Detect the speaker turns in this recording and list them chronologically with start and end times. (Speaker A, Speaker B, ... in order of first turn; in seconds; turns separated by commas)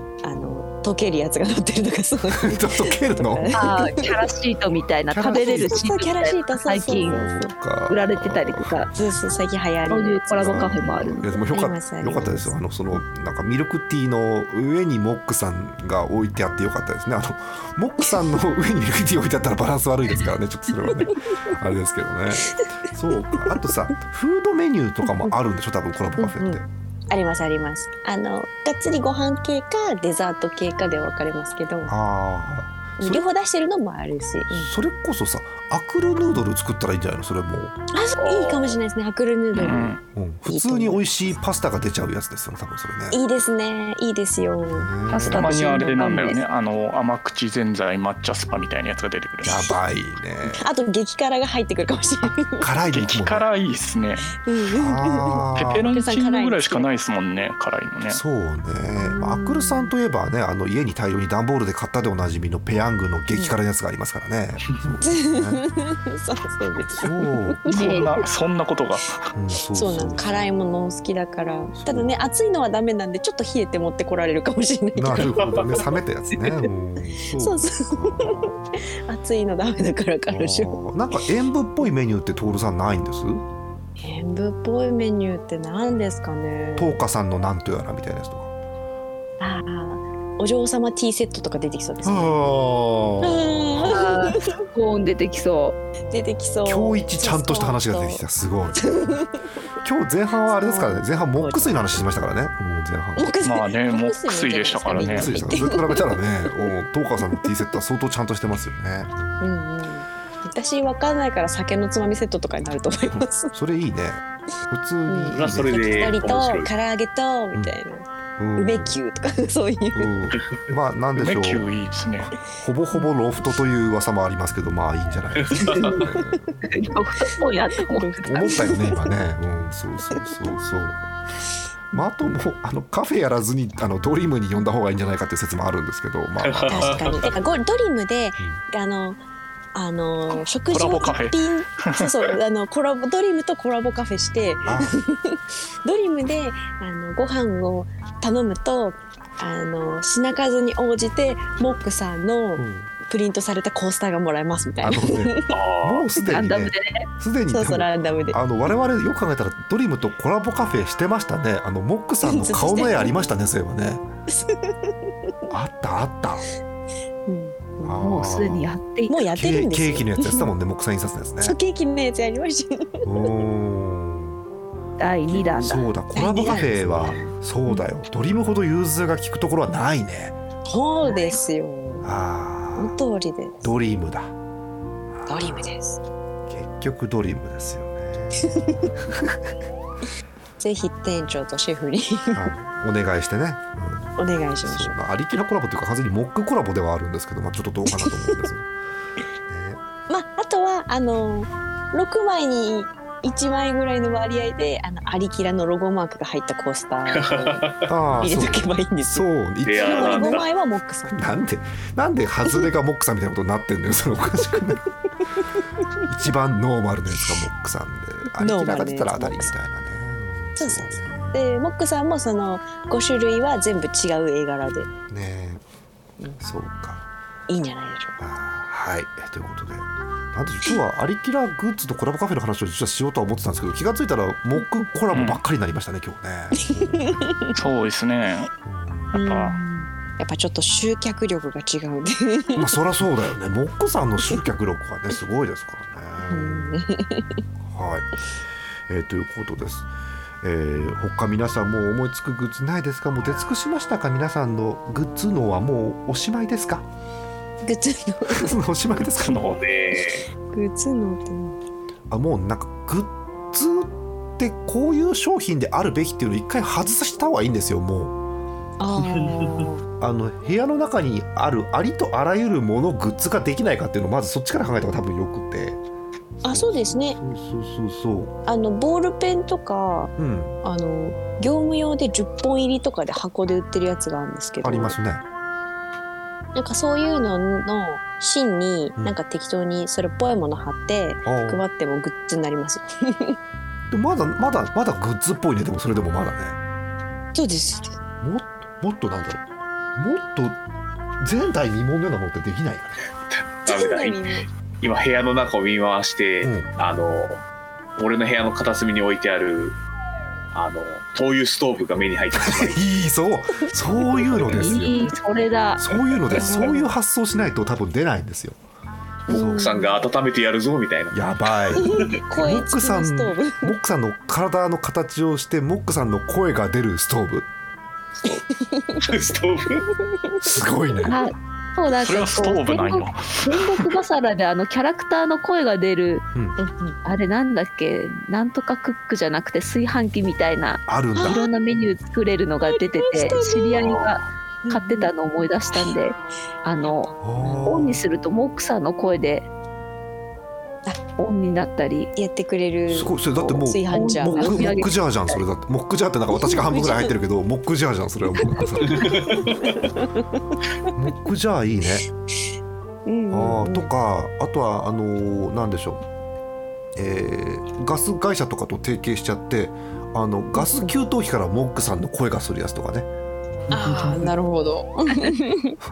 Speaker A: 0.2-4.2, Speaker B: 2.4-3.7, Speaker C: 3.5-7.2, Speaker B: 5.1-5.9, Speaker A: 5.3-7.5, Speaker B: 6.8-9.0, Speaker C: 7.9-8.9, Speaker A: 8.9-12.6, Speaker C: 9.9-11.2, Speaker B: 10.4-26.6, Speaker A: 20.9-21.1, Speaker A: 26.2-31.9, Speaker B: 31.9-33.2, Speaker A: 33.0-34.7, Speaker B: 34.5-37.8, Speaker A: 37.9-41.3, Speaker D: 38.2-38.8, Speaker E: 39.5-40.0, Speaker B: 40.1-43.2, Speaker A: 43.1-46.5, Speaker B: 44.7-45.5, Speaker C: 45.1-46.3, Speaker E: 45.1-49.7, Speaker B: 49.4-50.6, Speaker A: 50.5-52.7, Speaker B: 52.6-53.5, Speaker E: 52.9-54.3, Speaker A: 54.4-56.9, Speaker B: 54.7-55.9, Speaker E: 55.6-58.2, Speaker B: 58.1-65.6, Speaker A: 59.0-59.9, Speaker A: 65.0-68.2, Speaker B: 66.8-67.6, Speaker E: 67.7-69.2, Speaker B: 69.3-70.5, Speaker A: 69.7-75.9, Speaker B: 71.7-72.2, Speaker B: 75.0-78.7, Speaker D: 75.4-75.8, Speaker A: 76.4-76.7, Speaker A: 77.3-80.8, Speaker B: 80.3-83.4, Speaker A: 84.0-87.0, Speaker B: 86.8-88.5, Speaker A: 89.4-92.5, Speaker B: 92.0-94.0, Speaker A: 93.2-94.6, Speaker C: 93.8-95.8, Speaker A: 96.1-98.2, Speaker B: 96.7-99.2, Speaker A: 98.8-99.4, Speaker B: 99.8-103.3, Speaker A: 100.4-102.1, Speaker A: 103.2-106.7, Speaker E: 103.4-105.5, Speaker B: 105.0-109.2, Speaker A: 109.4-113.5, Speaker B: 113.5-116.1, Speaker A: 115.1-118.1, Speaker D: 115.3-116.7, Speaker B: 118.4-119.0, Speaker A: 118.6-120.1, Speaker B: 119.9-121.7, Speaker E: 121.2-122.3, Speaker B: 122.2-126.6, Speaker D: 125.4-125.9, Speaker A: 125.6-126.4, Speaker C: 126.7-128.7, Speaker A: 127.9-129.1, Speaker B: 128.3-131.0, Speaker B: 131.9-137.3, Speaker D: 136.4-137.5, Speaker A: 136.7-139.2, Speaker A: 139.7-155.5, Speaker E: 140.3-142.3, Speaker B: 144.7-144.9, Speaker B: 152.6-152.9, Speaker B: 154.8-164.1, Speaker D: 155.5-156.1, Speaker C: 156.3-157.1, Speaker A: 157.5-158.4, Speaker A: 162.2-163.3, Speaker A: 164.3-164.7, Speaker B: 165.5-166.4, Speaker A: 167.3-168.3, Speaker B: 167.8-168.7, Speaker C: 168.0-169.2, Speaker A: 169.1-170.5, Speaker B: 169.3-171.6, Speaker A: 171.4-173.3, Speaker B: 173.0-174.4, Speaker C: 175.0-175.8, Speaker B: 175.6-180.4, Speaker A: 176.1-177.8, Speaker A: 180.7-182.1, Speaker B: 182.0-182.9, Speaker A: 182.8-183.7, Speaker B: 183.6-184.3, Speaker B: 185.1-185.7, Speaker A: 185.3-186.0, Speaker B: 186.5-189.3, Speaker A: 188.5-188.9, Speaker A: 190.6-192.5, Speaker B: 192.3-198.7, Speaker A: 194.2-195.0, Speaker A: 197.9-198.5, Speaker B: 199.5-199.8, Speaker A: 200.1-211.3, Speaker D: 207.1-207.9, Speaker B: 207.9-210.4, Speaker D: 209.7-210.5, Speaker B: 211.1-214.8, Speaker B: 216.1-221.4, Speaker A: 218.4-219.6, Speaker A: 220.6-224.9, Speaker B: 225.1-225.6, Speaker B: 226.4-227.1, Speaker A: 227.5-228.2, Speaker B: 228.2-237.3, Speaker E: 235.1-235.4, Speaker A: 236.6-237.6, Speaker E: 237.6-238.5, Speaker B: 238.7-239.2, Speaker E: 239.1-239.6, Speaker A: 239.1-242.7, Speaker B: 242.6-246.8, Speaker A: 246.3-247.4, Speaker B: 247.7-248.1, Speaker B: 248.9-249.9, Speaker B: 250.4-256.9, Speaker A: 257.6-258.6, Speaker B: 258.3-259.6, Speaker E: 259.1-259.6, Speaker D: 259.4-260.3, Speaker A: 260.5-261.6, Speaker B: 262.1-268.1, Speaker A: 268.8-269.8, Speaker D: 268.9-269.6, Speaker B: 270.0-275.8, Speaker B: 276.4-278.3, Speaker A: 276.4-277.2, Speaker A: 278.5-280.1, Speaker B: 280.2-280.6, Speaker A: 280.6-285.0, Speaker B: 284.6-285.2, Speaker A: 286.6-293.4, Speaker B: 291.2-291.6, Speaker B: 293.9-296.6, Speaker A: 297.3-298.0, Speaker B: 298.2-299.4, Speaker B: 300.0-300.6, Speaker B: 301.2-303.0, Speaker D: 303.3-307.4, Speaker A: 303.7-304.5, Speaker B: 306.4-306.7, Speaker D: 308.0-309.8, Speaker D: 310.5-312.8, Speaker B: 312.4-315.0, Speaker A: 314.0-314.4, Speaker C: 314.6-315.8, Speaker B: 315.8-318.6, Speaker A: 316.3-316.9, Speaker A: 319.3-320.0, Speaker B: 319.3-319.6, Speaker D: 319.3-321.2, Speaker B: 321.1-321.9, Speaker D: 321.8-322.1, Speaker A: 321.8-323.7, Speaker B: 322.4-327.5, Speaker D: 328.2-328.4, Speaker A: 328.3-329.1, Speaker D: 329.1-329.8, Speaker A: 330.2-330.6, Speaker B: 330.4-331.2, Speaker C: 331.1-336.2, Speaker E: 332.0-333.8, Speaker A: 336.6-337.0, Speaker C: 337.0-347.1, Speaker B: 340.9-341.5, Speaker A: 341.2-341.5, Speaker A: 342.6-343.8, Speaker D: 343.8-344.2, Speaker A: 344.6-345.1, Speaker B: 347.2-348.0, Speaker C: 347.6-349.5, Speaker C: 351.2-352.1, Speaker A: 352.1-355.4, Speaker B: 352.9-359.1, Speaker C: 353.9-354.9, Speaker A: 356.3-357.1, Speaker A: 358.4-360.2, Speaker D: 358.9-359.5, Speaker B: 361.0-362.1, Speaker A: 363.1-363.9, Speaker B: 363.3-366.0, Speaker B: 367.0-373.1, Speaker A: 370.6-370.9, Speaker D: 373.7-374.3, Speaker A: 373.7-375.8